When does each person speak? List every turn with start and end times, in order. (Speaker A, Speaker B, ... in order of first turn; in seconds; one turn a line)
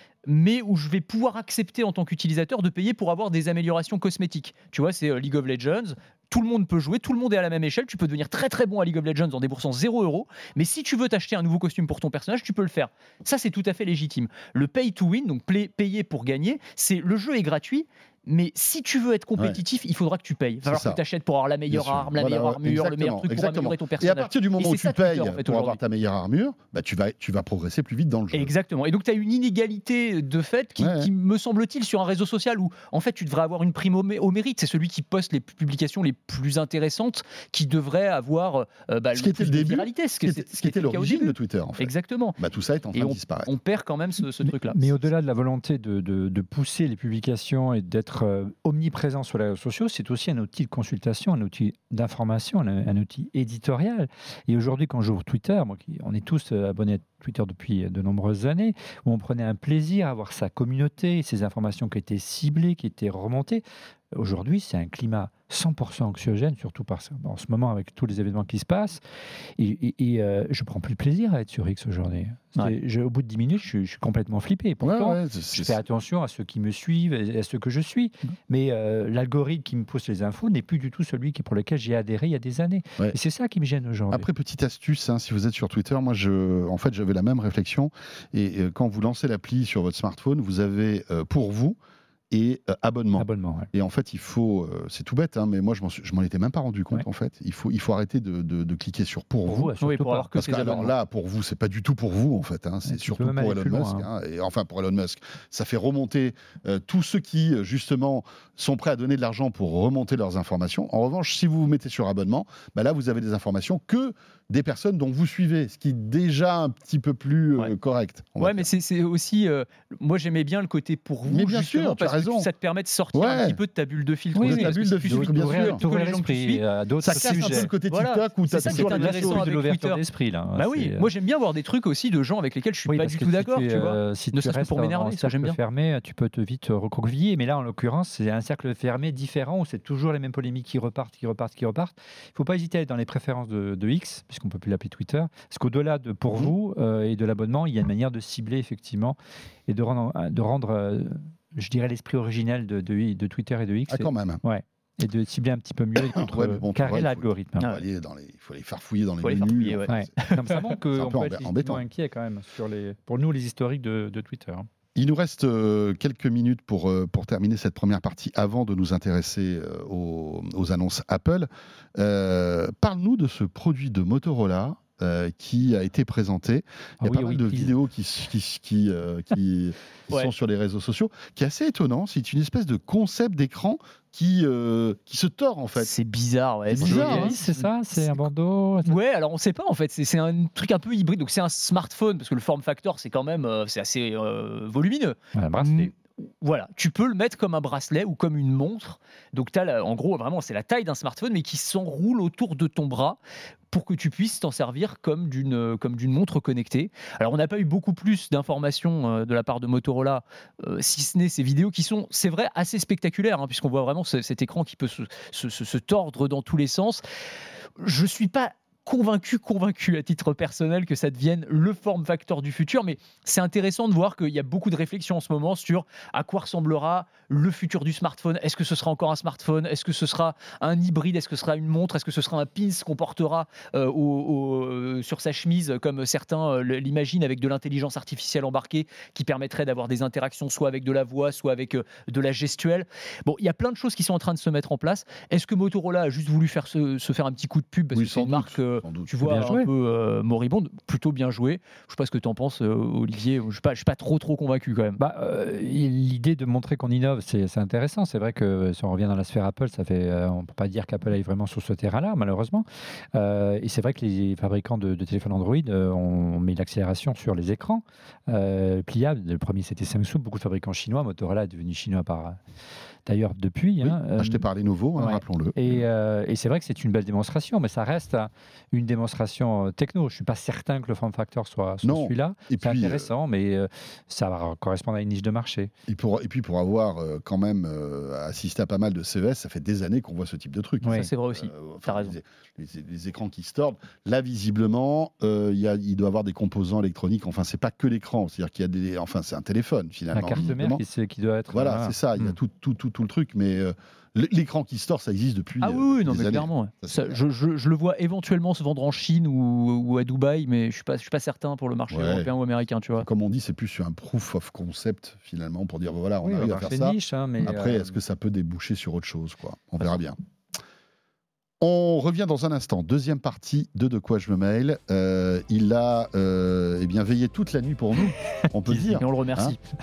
Speaker A: 0.2-25.8
Speaker B: 20.6-21.0
Speaker B: 21.7-28.5
Speaker A: 28.3-42.4
Speaker B: 30.8-31.1
Speaker B: 39.1-43.5
Speaker A: 42.9-45.1
Speaker C: 44.4-69.0
Speaker C: 69.6-84.3
Speaker B: 74.8-75.8
Speaker B: 84.1-91.8
Speaker B: 92.3-99.7
Speaker C: 93.2-93.7
Speaker C: 99.5-100.3
Speaker A: 99.8-100.9
Speaker B: 100.4-118.7
Speaker C: 102.9-104.1
Speaker A: 118.4-130.0
Speaker B: 121.3-122.5
Speaker B: 123.1-123.6
Speaker B: 124.3-125.8
Speaker C: 124.4-127.7
Speaker B: 127.0-129.5
Speaker C: 128.6-131.1
Speaker A: 130.6-135.6
Speaker C: 132.9-157.7
Speaker B: 153.9-154.4
Speaker B: 156.0-160.1
Speaker A: 159.2-160.7
Speaker C: 159.9-164.7
Speaker B: 160.9-161.8
Speaker B: 164.9-185.9
Speaker C: 177.0-177.8
Speaker A: 185.8-188.2
Speaker B: 186.7-187.4
Speaker C: 186.8-189.0
Speaker A: 188.8-203.2
Speaker C: 195.3-195.9
Speaker A: 203.7-217.0
Speaker A: 217.8-255.0
Speaker B: 247.9-249.1
Speaker C: 249.2-249.7
Speaker C: 255.0-272.4
Speaker C: 273.1-285.7
Speaker B: 273.8-275.9
Speaker B: 281.8-283.1
Speaker B: 285.9-300.8
Speaker C: 290.8-291.1
Speaker A: 290.9-292.1
Speaker C: 300.1-302.0
Speaker B: 301.5-307.2
Speaker A: 305.6-313.1
Speaker B: 311.9-312.3
Speaker B: 313.0-320.2
Speaker C: 316.2-317.9
Speaker B: 321.6-329.6
Speaker A: 328.8-329.6